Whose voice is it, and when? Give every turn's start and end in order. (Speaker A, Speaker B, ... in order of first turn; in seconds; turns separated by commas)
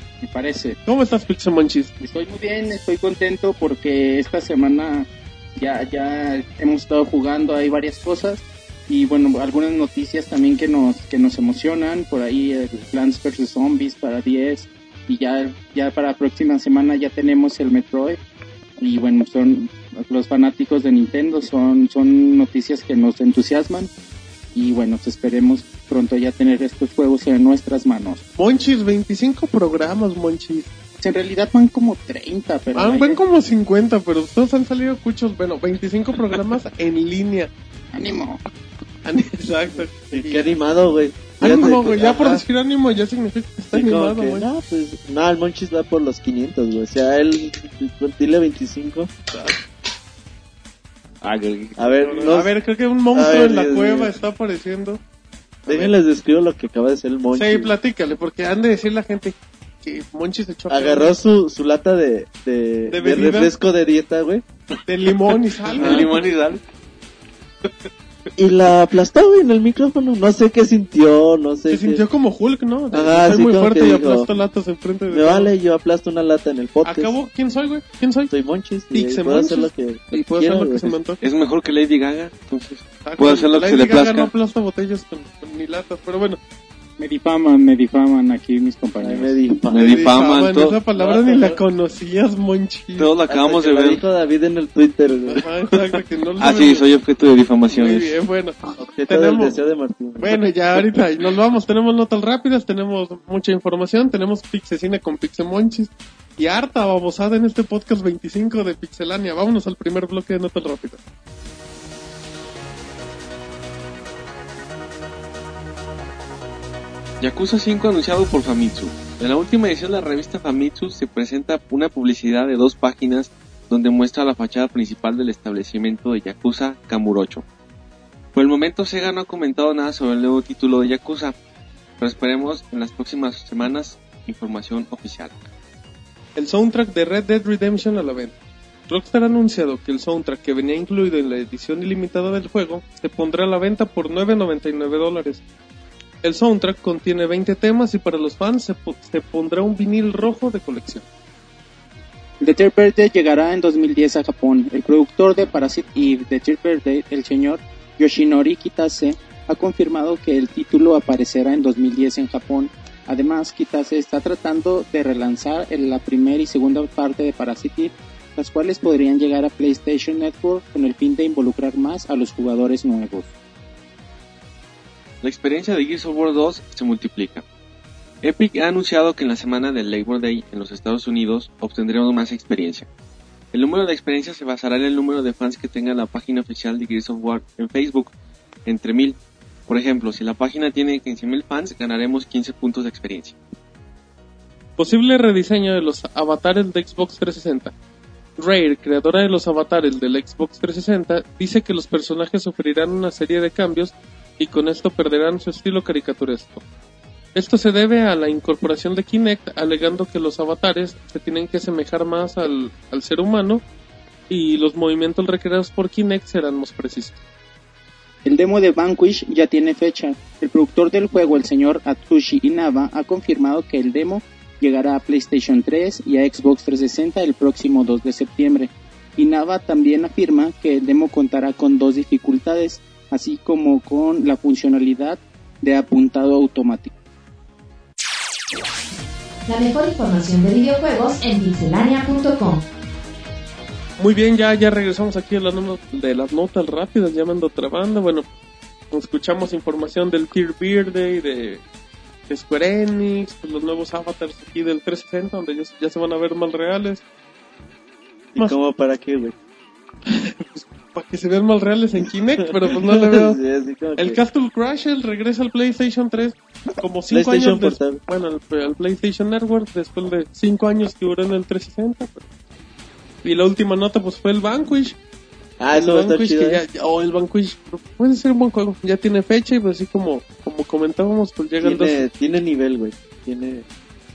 Speaker A: 0.2-0.8, Speaker B: 0.8-1.9, Speaker A: 2.0-18.2, Speaker A: 18.8-23.9, Speaker A: 24.5-28.2, Speaker B: 28.4-30.7, Speaker A: 31.0-33.2, Speaker B: 32.7-37.5, Speaker A: 37.9-38.4, Speaker B: 39.0-40.5, Speaker C: 40.1-42.4, Speaker B: 41.4-44.5, Speaker C: 43.7-49.1, Speaker B: 49.3-49.6, Speaker D: 51.2-52.3, Speaker C: 51.8-52.5, Speaker B: 52.0-55.0, Speaker C: 53.1-54.1, Speaker B: 55.6-55.9, Speaker C: 55.6-57.7, Speaker B: 57.3-61.1, Speaker C: 60.7-64.4, Speaker B: 62.9-63.5, Speaker B: 64.9-66.3, Speaker D: 65.0-66.6, Speaker C: 65.8-66.1, Speaker C: 68.4-72.0, Speaker B: 71.7-75.5, Speaker C: 72.9-74.3, Speaker C: 75.1-77.1, Speaker B: 76.8-78.3, Speaker C: 78.3-81.0, Speaker B: 78.9-81.2, Speaker D: 81.2-84.3, Speaker B: 83.0-86.4, Speaker A: 87.0-89.4, Speaker C: 89.0-90.1, Speaker D: 89.7-90.8, Speaker B: 89.7-93.1, Speaker C: 90.9-91.6, Speaker D: 93.0-94.0, Speaker C: 93.3-95.5, Speaker B: 95.3-96.9, Speaker D: 95.9-98.2, Speaker B: 97.7-99.5, Speaker C: 98.8-100.4, Speaker B: 100.2-111.0, Speaker D: 117.2-127.4, Speaker D: 128.3-131.3, Speaker D: 132.0-135.4, Speaker B: 136.3-138.3, Speaker B: 138.9-145.4, Speaker B: 146.2-151.0, Speaker A: 152.4-173.3, Speaker D: 175.2-177.4, Speaker D: 178.2-182.9, Speaker D: 183.5-188.1, Speaker D: 188.7-189.2, Speaker D: 189.7-193.4, Speaker B: 194.8-197.7, Speaker B: 198.4-206.6, Speaker B: 207.3-213.6, Speaker B: 214.3-217.2, Speaker A: 218.2-236.9, Speaker E: 239.4-242.6, Speaker B: 244.0-248.3, Speaker B: 248.9-251.6, Speaker B: 252.3-257.0, Speaker C: 258.3-259.3, Speaker B: 260.1-263.4, Speaker C: 262.6-264.2, Speaker B: 264.0-272.2, Speaker C: 267.1-268.0, Speaker B: 273.2-275.0, Speaker C: 275.6-276.6, Speaker B: 275.7-282.0, Speaker C: 281.6-283.6